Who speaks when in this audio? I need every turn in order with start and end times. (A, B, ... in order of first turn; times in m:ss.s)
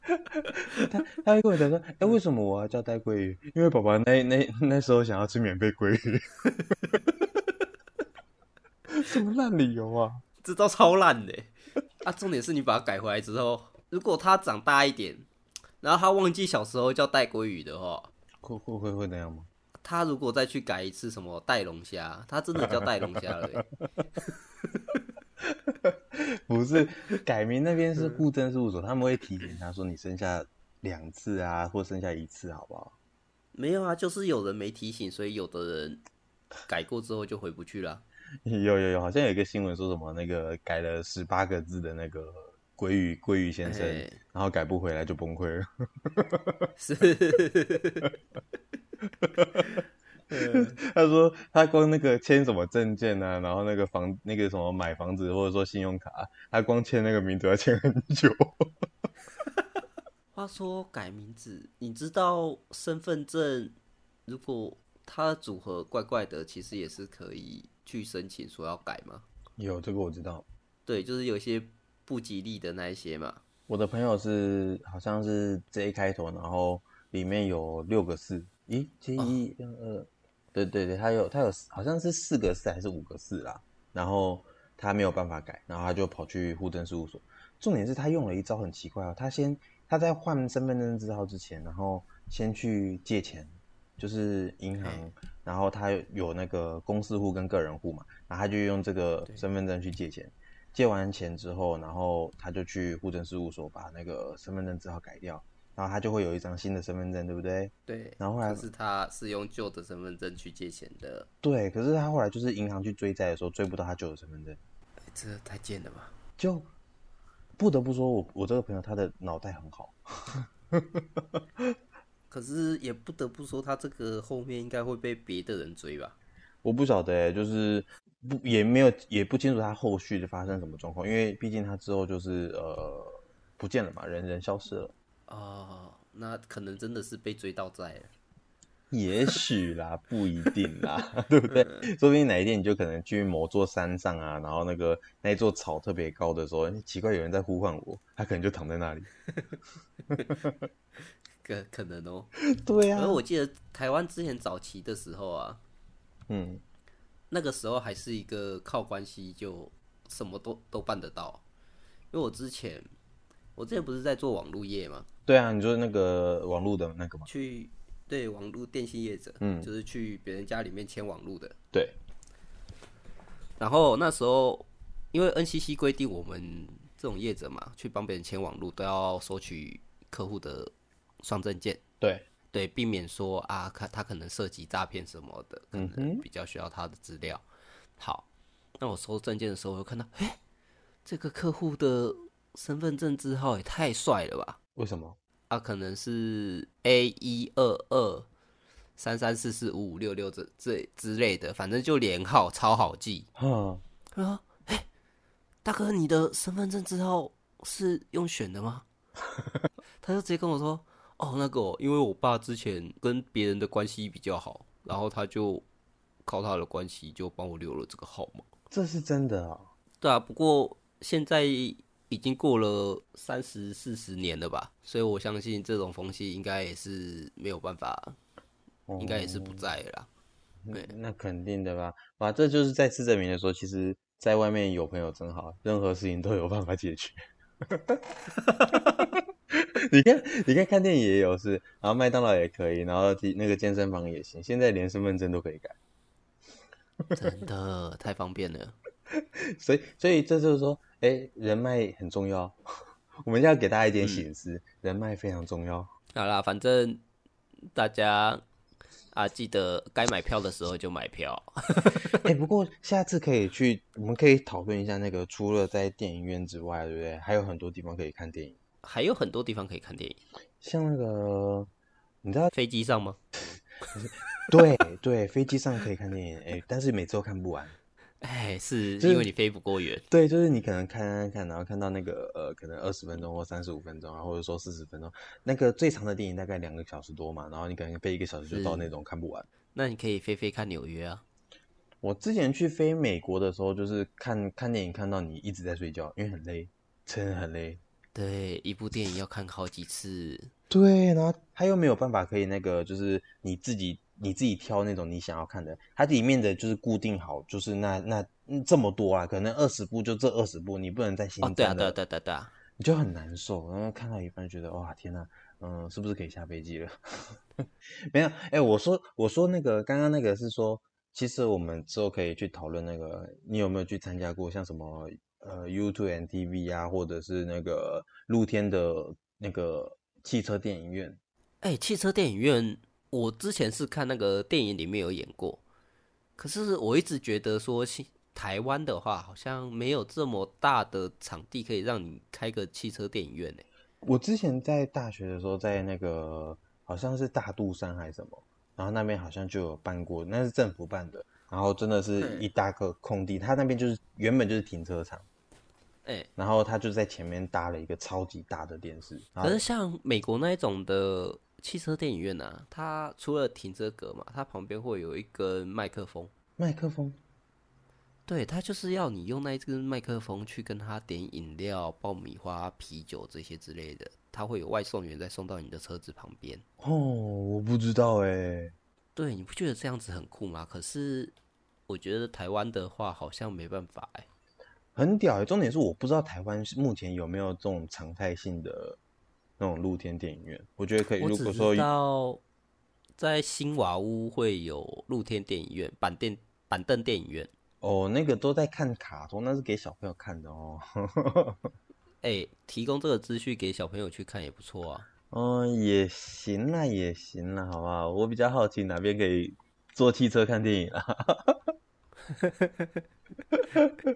0:00.2-0:07.0 A
0:08.9-0:10.2 A
0:10.4-0:15.3 B
0:15.8-0:18.1 B
0:18.4-0:19.5 A
0:19.8-0:23.6 B
0:25.4-0:33.0 A
0:33.5-0:36.0 B
0:36.7-0:38.0 B
0:38.4-0:46.7 A
0:43.6-0:44.2 B
0:46.8-0:48.1 B
0:49.2-0:49.7 A
0:50.3-0:50.8 B
0:50.3-0:58.7 A
1:00.3-1:03.8 B
1:04.3-1:09.2 B
1:09.6-1:10.4 A
1:10.9-1:13.4 B
1:13.7-1:48.7 A
1:47.9-1:51.3 B
1:51.4-1:54.6 A
1:55.1-1:56.1 B
1:56.4-1:56.7 A
1:57.6-2:01.7 A
2:02.3-2:06.2 B
2:06.6-2:14.9 A
2:15.3-2:18.1 B
2:18.9-2:29.1 A
2:30.1-2:30.5 A
2:31.4-2:32.3 B
2:32.4-2:33.2 A
2:33.0-2:35.6 B
2:36.3-2:36.6 A
2:37.3-2:41.4 B
2:42.1-2:42.9 B
2:43.6-2:45.1 B
2:45.3-2:47.3 A
2:47.3-2:51.6 B
2:49.4-2:49.7 A
2:53.6-3:01.8 B
3:02.0-3:02.3 A
3:02.5-3:07.4 B
3:05.7-3:06.2 A
3:08.0-3:08.3 B
3:08.8-3:10.4 B
3:11.0-3:14.6 B
3:14.8-3:15.2 A
3:15.5-3:18.3 B
3:19.0-3:23.3 B
3:23.4-3:23.8 A
3:24.1-3:24.9 B
3:25.6-3:28.9 B
3:30.0-3:35.6 B
3:36.2-3:38.4 B
3:38.7-3:39.7 A
3:40.0-3:48.2 B
3:48.9-3:49.6 A
3:49.0-3:50.1 B
3:50.7-3:58.0 A
3:59.0-4:05.8 A
4:07.2-4:08.8 B
4:09.1-4:12.6 A
4:13.2-4:15.9 A
4:16.2-4:17.0 B
4:17.7-4:18.4 B
4:19.1-4:22.2 B
4:22.2-4:28.6 A
4:28.8-4:30.2 B
4:30.6-4:31.7 A
4:32.2-4:32.5 A
4:32.5-4:33.2 B
4:33.9-4:37.7 A
4:38.2-4:40.0 B
4:39.0-4:39.3 A
4:40.1-4:49.5 A
4:48.5-4:48.9 B
4:49.7-4:51.2 B
4:52.0-4:57.8 A
4:58.2-5:00.5 B
5:00.7-5:12.0 A
5:11.4-5:12.5 B
5:12.8-5:31.2 A
5:31.6-5:35.6 B
5:36.4-5:43.7 B
5:44.0-5:55.3 A
5:52.2-5:52.5 B
5:56.4-5:59.6 A
5:59.4-6:06.3 B
6:06.6-6:07.2 A
6:08.3-6:16.6 B
6:16.8-6:18.7 A
6:19.2-6:21.3 B
6:21.9-6:24.3 B
6:25.0-6:29.0 A
6:29.6-6:31.9 A
6:31.2-6:32.4 B
6:33.2-6:37.5 B
6:37.8-6:41.6 A
6:42.2-6:45.1 B
6:45.3-6:51.7 A
6:52.3-6:52.9 B
6:53.6-6:54.0 A